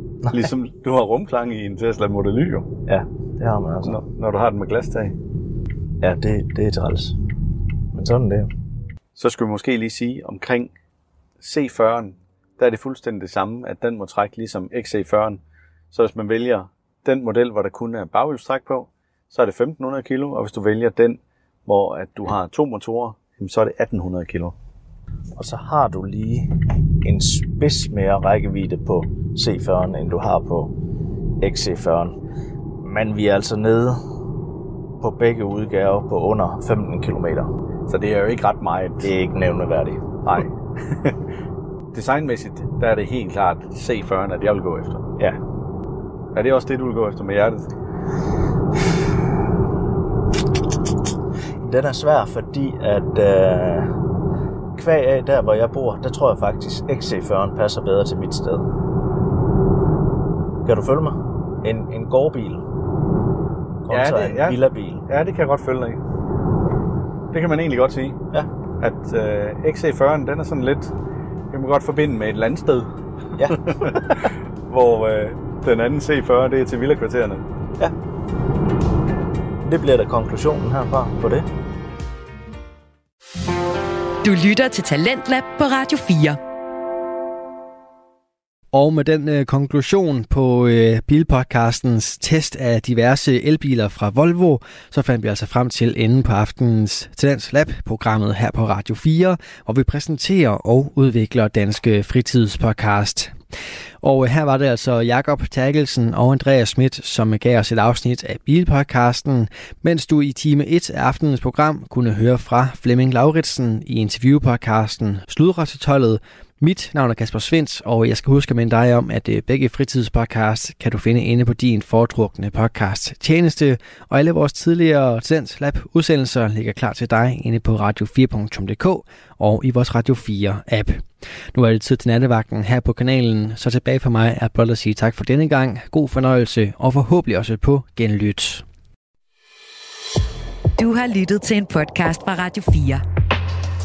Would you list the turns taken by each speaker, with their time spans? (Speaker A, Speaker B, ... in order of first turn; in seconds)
Speaker A: 0.3-2.7, 3.8-5.2, 9.2-10.7, 11.4-15.4, 15.9-24.6, 37.9-39.1, 40.2-41.2, 41.9-45.0, 46.3-47.7, 63.9-66.0, 67.3-68.2, 68.8-70.9, 71.5-72.9, 73.4-77.4
Speaker B: 2.9-4.0, 6.0-7.2, 7.9-8.5, 25.4-26.5, 27.0-30.7, 31.4-32.2, 32.8-34.0, 35.0-37.5, 39.0-40.0, 51.6-53.9, 54.8-58.7, 60.6-62.6, 63.9-65.0, 73.4-74.2, 79.6-81.5
Speaker C: 84.2-86.4, 140.8-143.0
Speaker D: 88.7-103.3, 104.0-138.6